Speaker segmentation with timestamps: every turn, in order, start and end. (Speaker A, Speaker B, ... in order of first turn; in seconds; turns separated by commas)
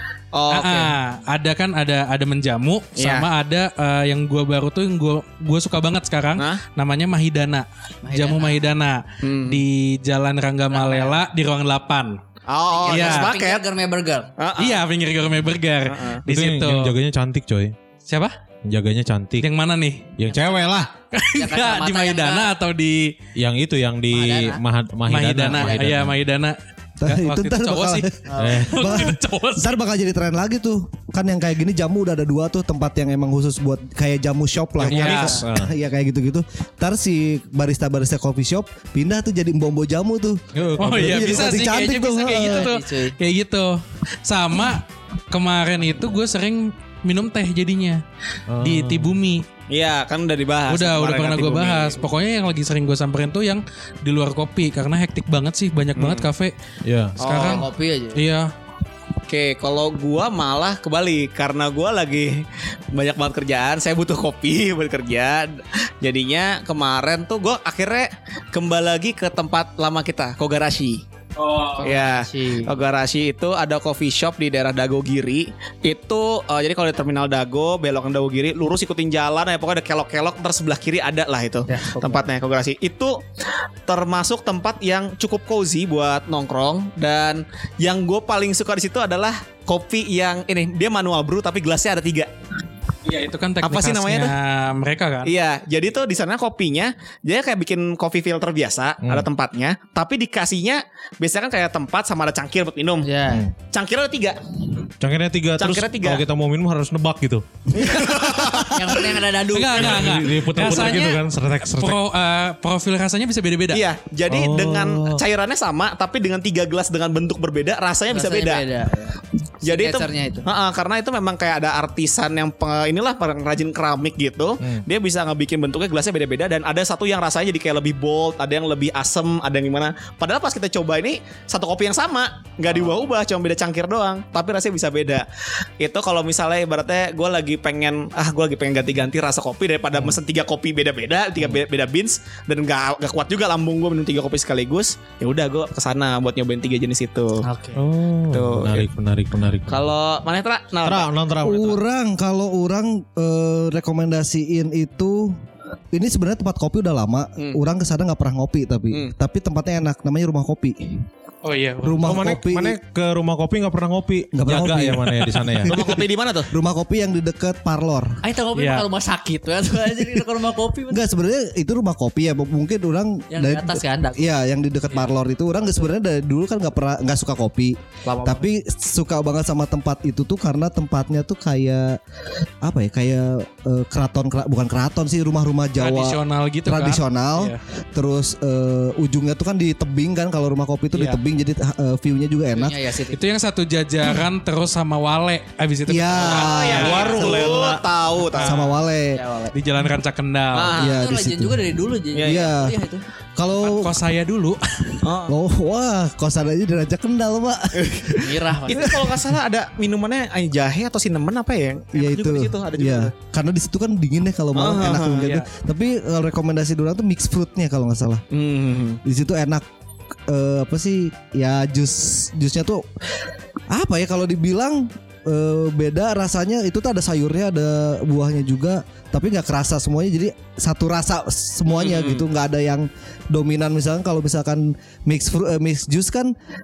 Speaker A: 0.3-0.9, Speaker B: 0.5-12.2, Speaker A: 3.0-3.3, Speaker C: 8.0-8.7, Speaker A: 9.2-9.6, Speaker C: 10.7-11.2, Speaker A: 12.5-13.6, Speaker C: 12.7-14.3, Speaker B: 12.9-13.3, Speaker A: 14.4-14.8, Speaker B: 14.6-16.9, Speaker A: 15.9-16.2, Speaker D: 16.3-17.7, Speaker B: 18.1-18.3, Speaker D: 18.6-19.5, Speaker B: 19.4-20.1, Speaker D: 20.2-20.9, Speaker C: 20.3-22.5, Speaker B: 21.1-23.2, Speaker D: 23.4-26.2, Speaker C: 24.1-24.6, Speaker B: 25.1-29.8, Speaker E: 27.0-42.7, Speaker C: 28.3-28.7, Speaker D: 28.4-28.9, Speaker D: 34.8-35.7, Speaker B: 34.8-35.4, Speaker D: 40.5-41.6, Speaker B: 40.8-48.0, Speaker C: 42.2-43.1, Speaker D: 48.5-49.2, Speaker B: 48.6-49.5, Speaker A: 49.7-52.0, Speaker B: 50.7-56.5, Speaker A: 56.0-56.3, Speaker D: 56.8-57.2, Speaker B: 57.2-58.5, Speaker A: 57.2-57.7, Speaker C: 57.3-58.2, Speaker A: 59.3-71.0, Speaker B: 71.4-71.8, Speaker C: 71.8-72.7, Speaker A: 71.8-83.2, Speaker C: 81.7-82.3, Speaker A: 83.8-92.3, Speaker B: 93.0-95.3, Speaker A: 93.6-94.3, Speaker A: 95.2-103.1, Speaker D: 99.0-99.3, Speaker C: 103.0-103.5, Speaker A: 103.6-104.4, Speaker D: 105.0-107.4, Speaker A: 105.6-106.2, Speaker A: 107.7-109.1, Speaker C: 108.6-110.7, Speaker B: 109.5-111.2, Speaker D: 109.8-112.0, Speaker B: 111.8-113.8, Speaker A: 113.7-118.6, Speaker D: 114.3-115.2, Speaker C: 118.1-120.5, Speaker A: 119.6-135.2, Speaker D: 124.6-124.8, Speaker A: 135.8-147.4, Speaker C: 147.4-147.8, Speaker D: 147.8-149.8, Speaker A: 148.3-148.9, Speaker A: 149.7-151.1, Speaker D: 150.8-151.8, Speaker E: 151.4-155.4, Speaker E: 155.9-161.1, Speaker B: 161.4-162.2, Speaker E: 161.8-162.8, Speaker D: 162.0-165.7, Speaker E: 164.3-168.2, Speaker A: 165.7-166.5, Speaker C: 168.2-171.1, Speaker B: 168.5-168.8, Speaker E: 170.9-182.0, Speaker C: 173.3-174.3, Speaker C: 178.1-178.5, Speaker E: 182.6-192.8, Speaker B: 185.8-187.6, Speaker C: 192.5-193.2, Speaker B: 193.1-197.1, Speaker E: 195.9-197.6, Speaker A: 196.2-198.6, Speaker D: 196.7-197.8, Speaker B: 198.2-198.8, Speaker E: 198.3-199.2, Speaker C: 199.1-199.5, Speaker B: 199.5-200.7, Speaker A: 200.5-201.0, Speaker E: 200.7-202.8, Speaker C: 200.8-203.0, Speaker A: 202.1-202.5, Speaker E: 203.4-204.0, Speaker B: 203.6-205.1, Speaker A: 205.0-205.3, Speaker E: 205.3-209.3, Speaker A: 207.8-213.1, Speaker C: 208.2-209.0, Speaker E: 211.9-218.2, Speaker A: 214.5-215.2, Speaker B: 215.1-215.5, Speaker A: 218.3-219.0, Speaker E: 219.0-219.6, Speaker E: 220.3-222.9, Speaker E: 223.7-236.3, Speaker A: 231.7-232.2